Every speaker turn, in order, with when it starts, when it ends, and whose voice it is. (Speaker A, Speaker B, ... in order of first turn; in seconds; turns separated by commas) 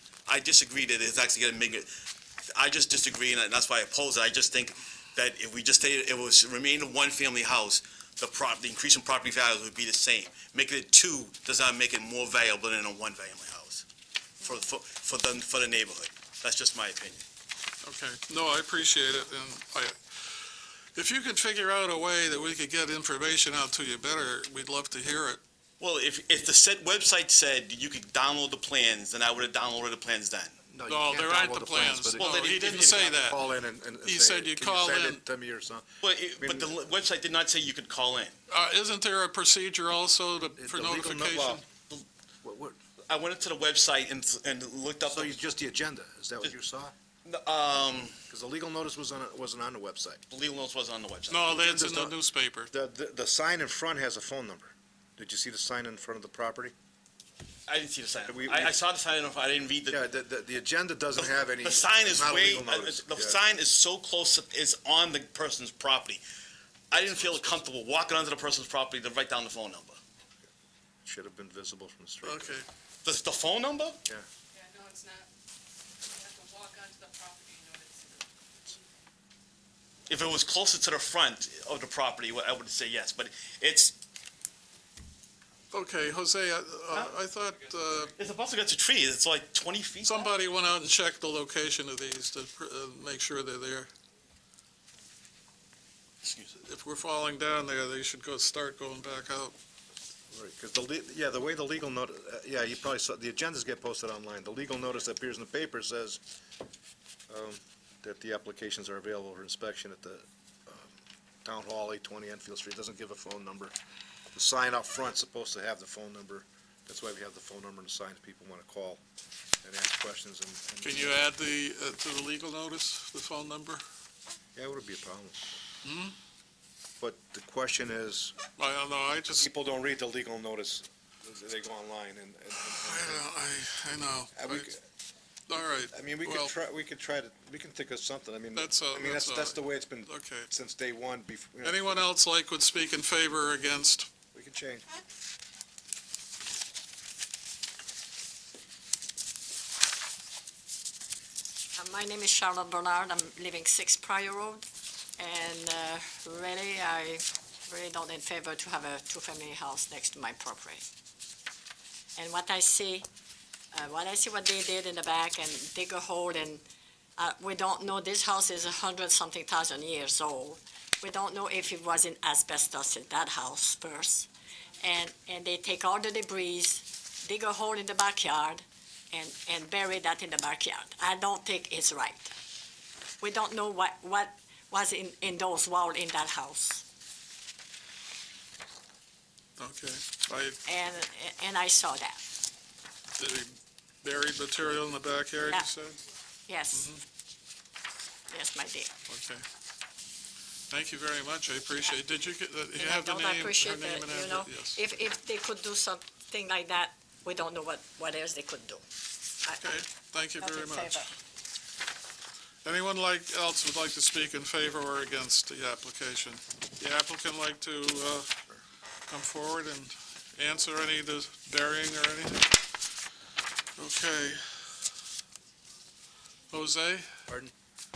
Speaker A: 0.3-13.9, Speaker A: 14.4-17.2, Speaker B: 17.8-25.4, Speaker A: 25.8-30.6, Speaker C: 30.7-32.3, Speaker B: 30.9-33.4, Speaker A: 32.2-33.2, Speaker C: 32.9-36.7, Speaker B: 34.0-35.2, Speaker A: 36.0-38.4, Speaker B: 38.5-41.6, Speaker C: 40.6-41.6, Speaker C: 42.4-42.8, Speaker A: 43.1-45.4, Speaker C: 45.0-46.9, Speaker A: 47.2-48.2, Speaker C: 48.3-50.2, Speaker A: 50.3-51.6, Speaker B: 51.3-52.7, Speaker C: 51.5-52.1, Speaker C: 52.7-56.7, Speaker A: 57.7-60.0, Speaker C: 58.2-58.8, Speaker C: 59.9-63.4, Speaker A: 61.2-66.2, Speaker C: 66.9-67.6, Speaker A: 66.9-70.0, Speaker C: 71.0-72.6, Speaker B: 72.2-72.7, Speaker A: 73.0-74.0, Speaker D: 74.5-75.3, Speaker D: 76.0-79.0, Speaker A: 80.1-84.0, Speaker B: 85.7-88.1, Speaker A: 88.1-90.2, Speaker B: 90.0-93.9, Speaker A: 96.2-96.6, Speaker B: 96.6-99.5, Speaker C: 100.3-106.2, Speaker C: 107.3-113.7, Speaker C: 114.3-119.0, Speaker C: 119.6-121.3, Speaker B: 120.8-123.8, Speaker C: 124.5-125.6, Speaker B: 125.8-126.1, Speaker C: 127.0-128.3, Speaker B: 128.6-129.5, Speaker C: 129.4-133.2, Speaker B: 132.6-134.7, Speaker C: 134.3-134.8, Speaker B: 135.5-136.5, Speaker C: 135.9-142.0, Speaker B: 138.5-140.5, Speaker B: 141.6-144.1, Speaker C: 144.3-144.8, Speaker E: 151.8-154.7, Speaker E: 155.2-160.8, Speaker E: 162.2-163.1, Speaker E: 163.7-166.6, Speaker E: 167.2-174.3, Speaker E: 174.8-182.3, Speaker E: 183.2-186.8, Speaker B: 189.6-190.6, Speaker E: 190.6-192.2, Speaker B: 193.2-196.0, Speaker E: 196.5-196.9, Speaker B: 196.7-197.0, Speaker E: 198.3-198.9, Speaker B: 199.1-199.4, Speaker B: 200.7-204.8, Speaker E: 202.8-208.8, Speaker E: 209.4-209.8, Speaker B: 209.6-211.1, Speaker E: 210.4-211.1, Speaker B: 212.6-218.5, Speaker B: 219.1-222.7, Speaker B: 223.8-224.7, Speaker B: 226.5-227.1, Speaker C: 227.3-227.5